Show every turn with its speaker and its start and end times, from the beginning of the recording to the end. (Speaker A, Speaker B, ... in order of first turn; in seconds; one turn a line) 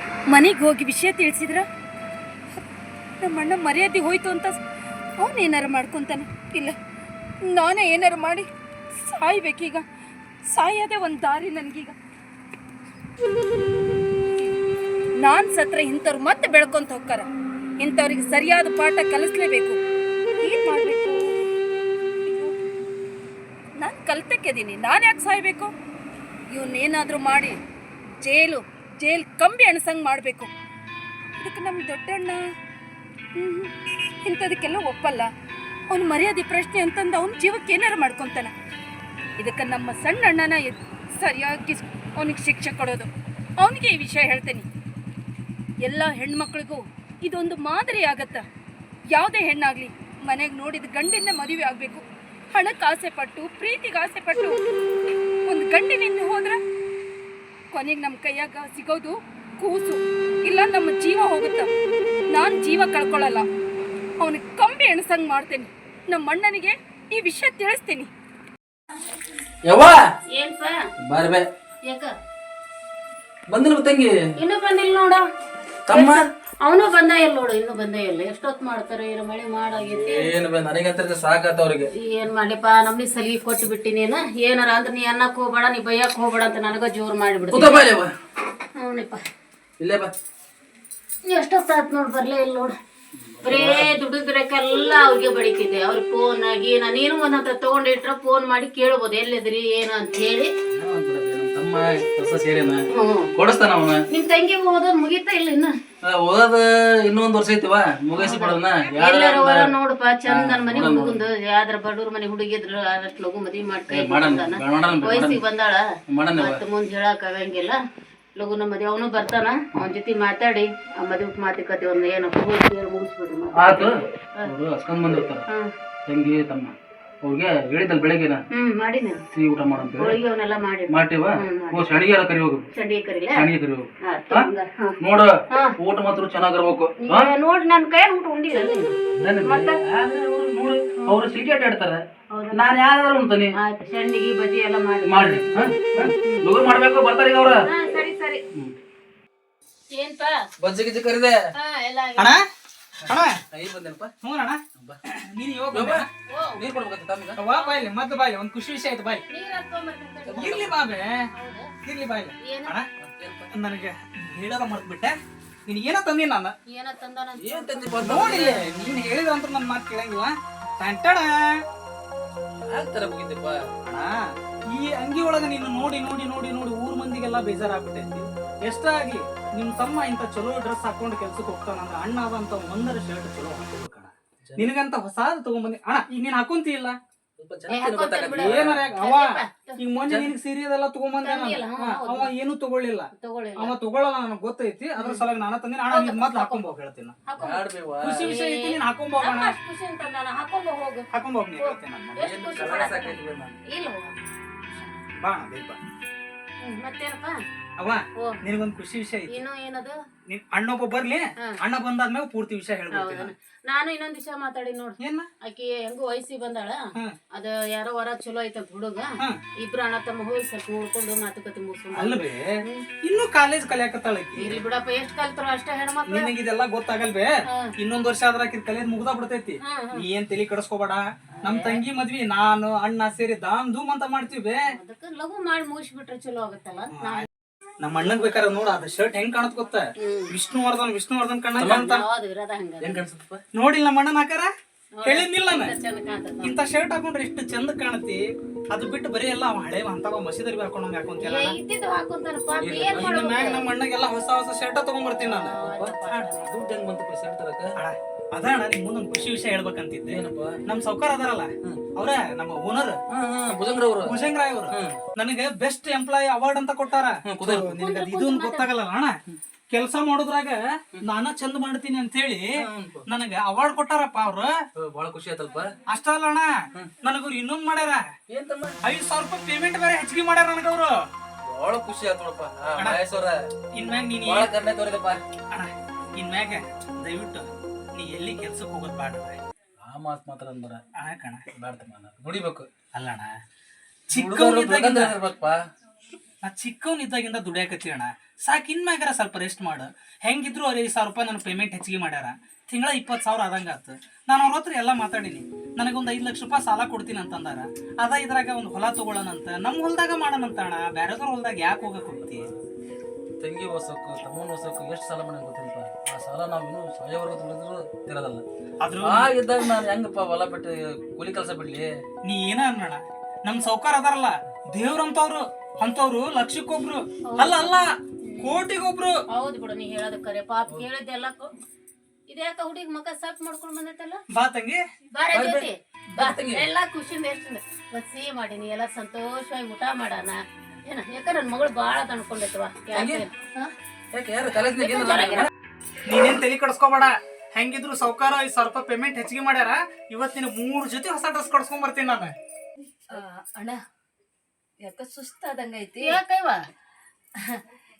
Speaker A: 0.3-1.7
Speaker A: 3.2-4.6
Speaker A: 5.2-6.8
Speaker A: 7.5-9.8
Speaker A: 10.5-11.9
Speaker A: 15.2-17.3
Speaker A: 17.8-19.8
Speaker A: 20.4-21.2
Speaker A: 22.2-22.6
Speaker A: 23.8-25.7
Speaker A: 26.5-27.6
Speaker A: 28.2-30.5
Speaker A: 31.4-32.4
Speaker A: 33.4-35.3
Speaker A: 35.9-38.5
Speaker A: 39.4-44.6
Speaker A: 45.8-48.5
Speaker A: 49.1-54.6
Speaker A: 55.4-56.6
Speaker A: 57.7-61.7
Speaker A: 62.3-63.5
Speaker A: 64.2-68.1
Speaker B: 69.6-70.0
Speaker C: 70.3-70.9
Speaker B: 71.0-71.5
Speaker C: 71.9-72.1
Speaker B: 73.5-74.1
Speaker C: 74.4-75.3
Speaker B: 75.9-76.3
Speaker C: 75.9-80.3
Speaker B: 79.8-81.9
Speaker C: 81.9-87.9
Speaker B: 87.5-88.1
Speaker C: 88.7-89.2
Speaker B: 89.8-90.1
Speaker C: 91.2-92.7
Speaker B: 93.2-94.0
Speaker C: 93.4-100.5
Speaker B: 100.7-104.0
Speaker C: 102.9-103.3
Speaker C: 104.1-105.7
Speaker B: 106.0-109.7
Speaker C: 108.2-115.8
Speaker B: 110.2-111.2
Speaker B: 113.9-115.4
Speaker B: 116.1-116.6
Speaker C: 116.3-117.8
Speaker C: 118.3-124.5
Speaker B: 123.5-125.4
Speaker B: 126.0-128.4
Speaker C: 128.5-129.2
Speaker B: 129.3-130.2
Speaker C: 129.9-132.0
Speaker B: 130.9-132.7
Speaker C: 132.7-133.4
Speaker B: 133.3-137.3
Speaker C: 134.0-135.0
Speaker C: 135.5-135.8
Speaker C: 137.0-139.8
Speaker B: 139.1-143.6
Speaker C: 142.3-142.8
Speaker C: 143.5-146.5
Speaker B: 145.0-147.6
Speaker C: 147.6-148.4
Speaker C: 149.9-150.5
Speaker B: 150.6-151.4
Speaker C: 151.5-152.3
Speaker B: 153.0-154.1
Speaker D: 153.1-153.4
Speaker D: 154.2-156.1
Speaker B: 155.7-156.0
Speaker C: 156.3-156.6
Speaker B: 156.6-157.4
Speaker D: 157.4-159.2
Speaker C: 157.5-157.9
Speaker C: 159.3-161.7
Speaker B: 160.3-160.7
Speaker D: 160.3-161.3
Speaker D: 161.8-162.9
Speaker C: 162.4-162.7
Speaker B: 163.0-163.5
Speaker D: 163.5-166.5
Speaker C: 166.7-168.4
Speaker B: 167.4-168.6
Speaker D: 168.0-171.6
Speaker B: 172.6-173.6
Speaker D: 173.8-187.0
Speaker B: 184.4-184.7
Speaker B: 187.4-188.9
Speaker C: 187.7-189.8
Speaker D: 188.3-189.2
Speaker D: 189.8-197.2
Speaker B: 190.0-190.3
Speaker C: 191.2-192.3
Speaker C: 193.1-193.7
Speaker C: 195.0-195.2
Speaker C: 195.9-196.6
Speaker C: 197.3-197.6
Speaker B: 197.4-198.3
Speaker D: 198.0-199.5
Speaker C: 198.2-201.1
Speaker D: 201.1-202.3
Speaker C: 201.6-204.2
Speaker B: 202.2-203.6
Speaker D: 205.2-205.8
Speaker C: 206.6-207.4
Speaker D: 207.8-209.3
Speaker C: 209.3-209.9
Speaker D: 210.3-213.3
Speaker C: 212.9-216.8
Speaker D: 215.0-215.3
Speaker C: 217.3-219.1
Speaker C: 219.6-222.8
Speaker D: 221.9-224.6
Speaker C: 224.4-226.3
Speaker D: 226.1-234.7
Speaker C: 229.7-230.0
Speaker C: 231.4-231.8
Speaker C: 234.7-237.3
Speaker D: 236.9-237.3
Speaker D: 237.8-242.0
Speaker C: 240.0-240.3
Speaker B: 241.6-241.9
Speaker C: 241.7-243.0
Speaker B: 242.8-243.4
Speaker D: 243.5-244.5
Speaker C: 245.0-246.5
Speaker D: 245.0-245.7
Speaker D: 246.4-251.6
Speaker C: 251.2-253.6
Speaker B: 252.6-253.2
Speaker D: 253.0-255.6
Speaker C: 255.2-256.5
Speaker B: 255.6-257.7
Speaker D: 257.7-263.0
Speaker B: 260.1-260.6
Speaker B: 263.1-265.0
Speaker D: 264.0-269.2
Speaker B: 267.2-267.8
Speaker C: 267.8-268.7
Speaker D: 269.7-274.5
Speaker B: 272.6-273.1
Speaker B: 274.8-275.7
Speaker D: 275.9-278.0
Speaker B: 278.3-278.8
Speaker D: 278.8-281.1
Speaker B: 281.4-283.5
Speaker D: 283.7-284.5
Speaker B: 284.2-285.2
Speaker D: 285.5-289.4
Speaker B: 289.8-290.8
Speaker D: 290.9-291.4
Speaker B: 291.5-292.7
Speaker D: 292.9-293.4
Speaker D: 294.1-295.2
Speaker B: 294.1-295.6
Speaker D: 296.4-312.5
Speaker B: 313.4-318.4
Speaker D: 318.8-319.3
Speaker B: 319.0-321.9
Speaker D: 322.2-329.2
Speaker C: 327.2-327.7
Speaker C: 328.2-328.6
Speaker C: 329.3-331.5
Speaker C: 332.3-334.2
Speaker D: 334.3-334.8
Speaker C: 335.1-343.3
Speaker B: 335.3-336.7
Speaker B: 342.9-343.2
Speaker B: 344.1-345.5
Speaker C: 344.6-345.5
Speaker D: 346.1-352.3
Speaker A: 353.1-353.8
Speaker A: 354.8-356.2
Speaker C: 356.0-356.6